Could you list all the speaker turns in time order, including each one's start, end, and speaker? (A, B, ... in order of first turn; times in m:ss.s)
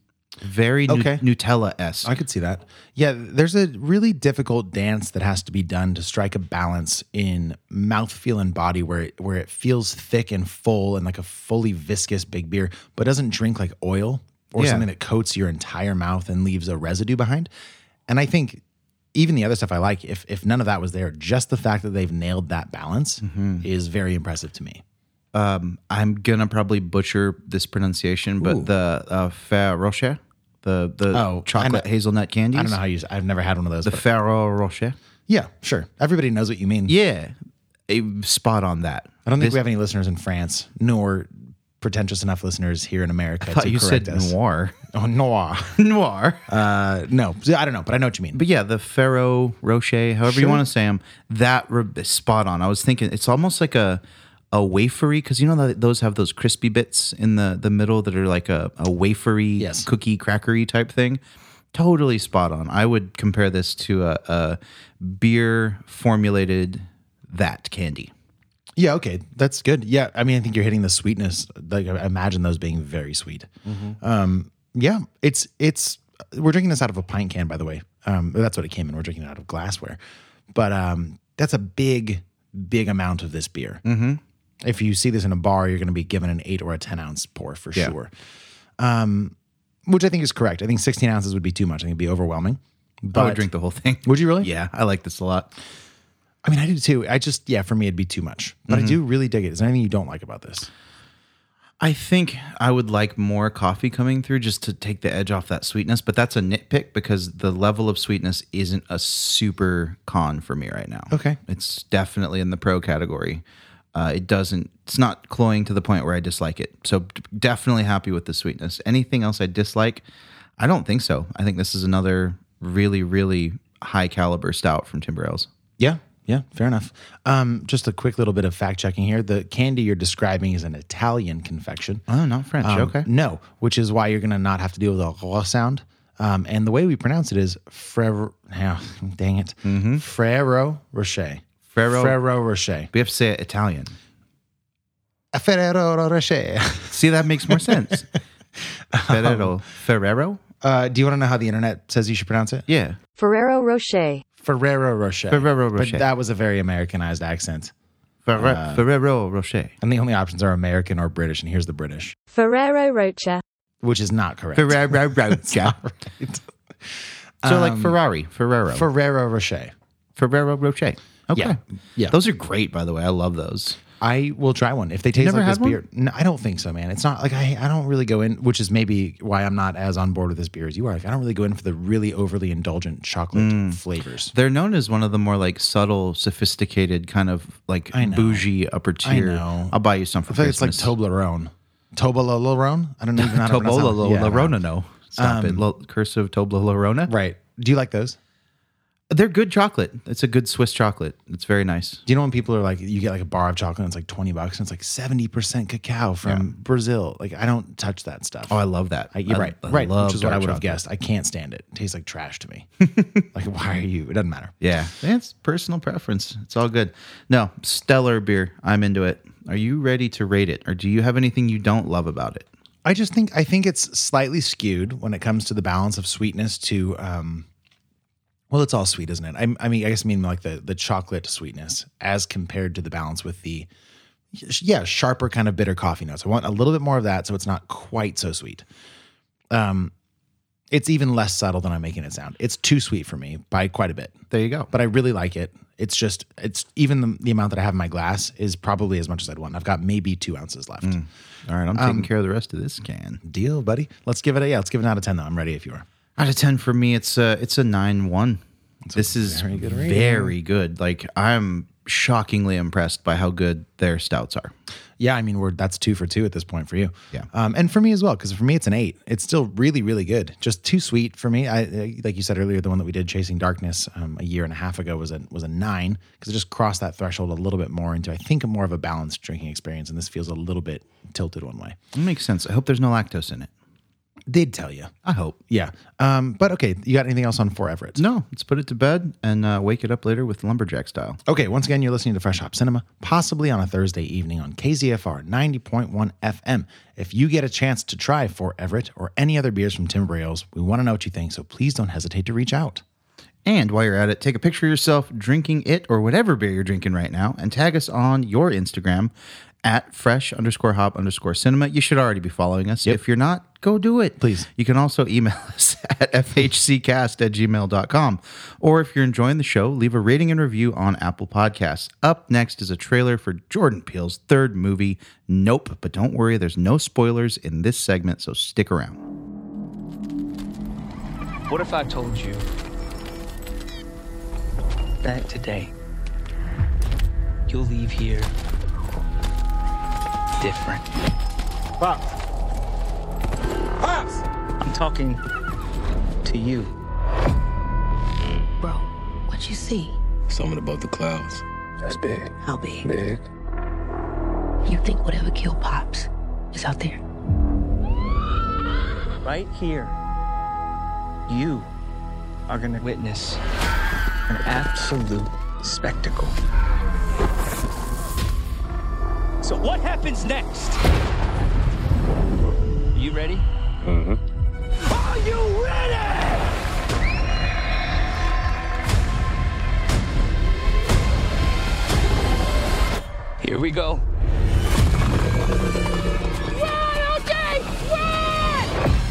0:00.4-0:02.1 A
0:00.9-0:01.2 B
0:02.0-0:17.5 B
0:14.6-0:14.8 A
0:18.1-0:18.6 B
0:19.1-0:24.8 B
0:23.2-0:23.7 A
0:25.3-0:32.8 A
0:28.4-0:28.7 B
0:31.1-0:31.8 B
0:32.5-0:34.0 B
0:33.8-0:35.0 A
0:35.3-0:36.9 B
0:36.9-0:37.3 A
0:37.9-0:39.6 A
0:39.2-0:44.3 B
0:43.4-0:44.8 A
0:44.9-0:45.8 B
0:45.8-0:46.4 A
0:46.5-0:48.4 B
0:48.3-0:54.0 A
0:50.2-0:50.6 B
0:54.5-1:01.2 A
0:59.6-0:59.9 B
1:01.7-1:08.1 A
1:08.8-1:20.0 B
1:13.7-1:13.9 A
1:20.5-1:23.8 B
1:23.8-1:24.2 A
1:24.6-1:28.1 B
1:28.8-1:29.3 B
1:29.8-1:33.4 B
1:33.1-1:35.5 A
1:34.0-1:34.5 B
1:36.4-1:40.7 B
1:38.7-1:39.0 A
1:41.8-1:53.4 A
1:51.1-1:51.4 B
1:53.9-2:00.0 A
2:00.6-2:05.5 A
2:05.8-2:12.0 B
2:12.1-2:13.1 A
2:12.6-2:22.9 B
2:19.6-2:20.0 A
2:21.7-2:22.2 A
2:22.9-2:23.9 A
2:25.3-2:27.0 B
2:26.9-2:28.1 A
2:27.5-2:27.9 B
2:28.9-2:29.5 B
2:29.0-2:30.4 A
2:30.6-2:32.6 B
2:32.7-2:33.0 A
2:33.2-2:34.2 C
2:34.4-2:37.7 B
2:35.3-2:36.0 A
2:38.2-2:39.7 A
2:38.4-2:38.8 B
2:39.8-2:42.1 B
2:42.3-2:43.4 C
2:43.8-2:46.4 B
2:44.5-2:45.8 A
2:47.4-2:48.0 B
2:47.4-2:48.9 A
2:48.7-2:49.7 B
2:50.2-2:53.8 A
2:51.3-2:52.2 B
2:54.0-3:04.3 B
2:55.1-2:55.8 A
3:03.3-3:03.8 A
3:04.3-3:10.9 A
3:07.9-3:08.5 B
3:09.0-3:09.8 B
3:10.3-3:14.6 B
3:13.2-3:17.1 A
3:15.2-3:15.6 B
3:17.1-3:18.2 B
3:19.1-3:22.0 A
3:22.0-3:32.7 B
3:28.5-3:30.8 A
3:32.8-3:33.2 A
3:33.3-3:34.5 B
3:34.6-3:42.5 A
3:42.8-3:47.4 B
3:48.5-3:53.7 B
3:54.3-3:58.6 B
3:59.5-3:59.9 B
4:00.7-4:04.1 B
4:04.3-4:04.7 A
4:04.7-4:11.0 B
4:10.8-4:13.2 A
4:11.7-4:12.1 B
4:13.2-4:15.8 B
4:16.2-4:18.4 A
4:18.8-4:20.3 B
4:18.9-4:24.5 A
4:25.0-4:41.8 B
4:41.9-4:43.5 A
4:44.3-4:44.9 B
4:45.0-4:45.4 A
4:45.5-4:48.0 B
4:48.0-4:51.2 A
4:51.3-5:02.8 B
5:03.4-5:09.1 A
5:09.6-5:29.0 A
5:14.2-5:14.5 B
5:31.5-5:32.5 D
5:35.0-5:35.7 D
5:37.5-5:38.3 D
5:40.4-5:40.8 D
5:44.6-5:45.2 D
5:46.2-5:46.7 D
5:48.6-5:50.0 E
5:50.3-5:52.3 F
5:52.4-5:52.9 E
5:52.8-5:53.2 F
5:54.6-5:57.0 E
5:59.2-6:00.0 D
6:01.3-6:01.7 D
6:02.5-6:03.4 D
6:04.3-6:06.4 D
6:09.4-6:10.8 D
6:12.9-6:13.4 D
6:13.8-6:14.2 F
6:14.9-6:16.4 D
6:23.4-6:24.0 D